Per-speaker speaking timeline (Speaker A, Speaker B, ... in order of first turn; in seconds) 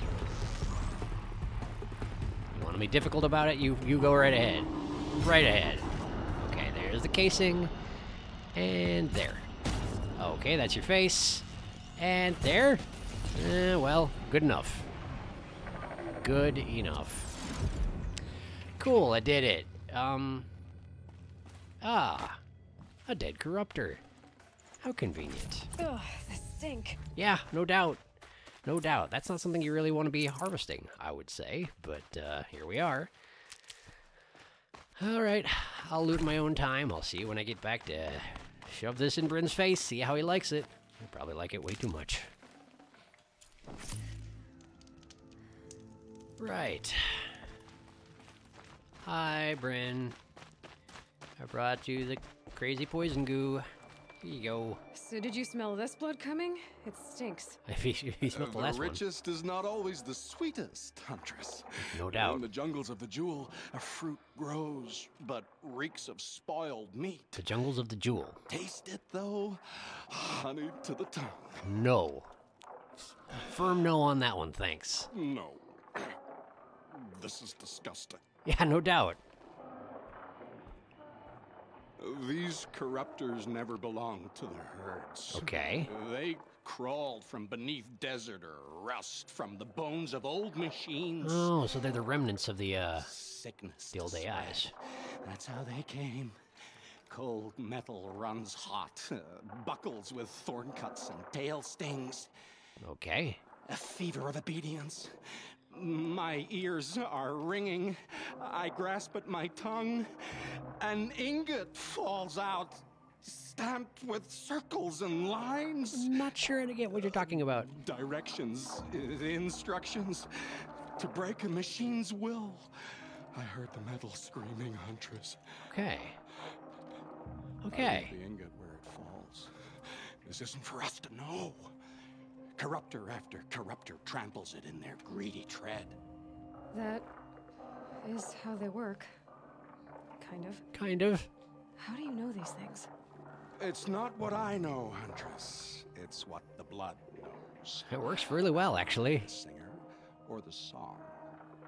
Speaker A: 2.5-7.7, 8.5-9.5, 10.2-11.4, 12.0-14.9, 16.2-17.3, 18.8-20.5, 21.8-22.4, 23.1-24.0, 24.8-25.7, 27.1-28.0, 28.6-33.1, 35.0-42.3, 46.4-47.4, 49.0-50.2, 51.4-53.6, 54.2-54.8, 57.6-59.0, 61.8-62.5, 67.3-68.4, 71.6-72.3, 73.4-75.1, 78.4-79.2, 85.3-85.9, 91.2-93.1, 93.9-94.7, 102.8-103.4, 115.9-117.7, 125.7-126.2, 127.6-128.1, 140.7-141.3, 147.9-149.3
Speaker B: 25.8-27.0, 54.9-57.6, 136.7-137.1, 138.0-139.1, 140.2-140.6, 141.8-142.9
Speaker C: 58.2-67.5, 68.5-71.7, 75.1-76.2, 76.9-78.2, 82.0-91.5, 93.0-96.4, 97.1-102.3, 103.6-116.2, 116.9-125.4, 127.7-131.7, 132.6-136.0, 143.6-148.1, 149.1-151.2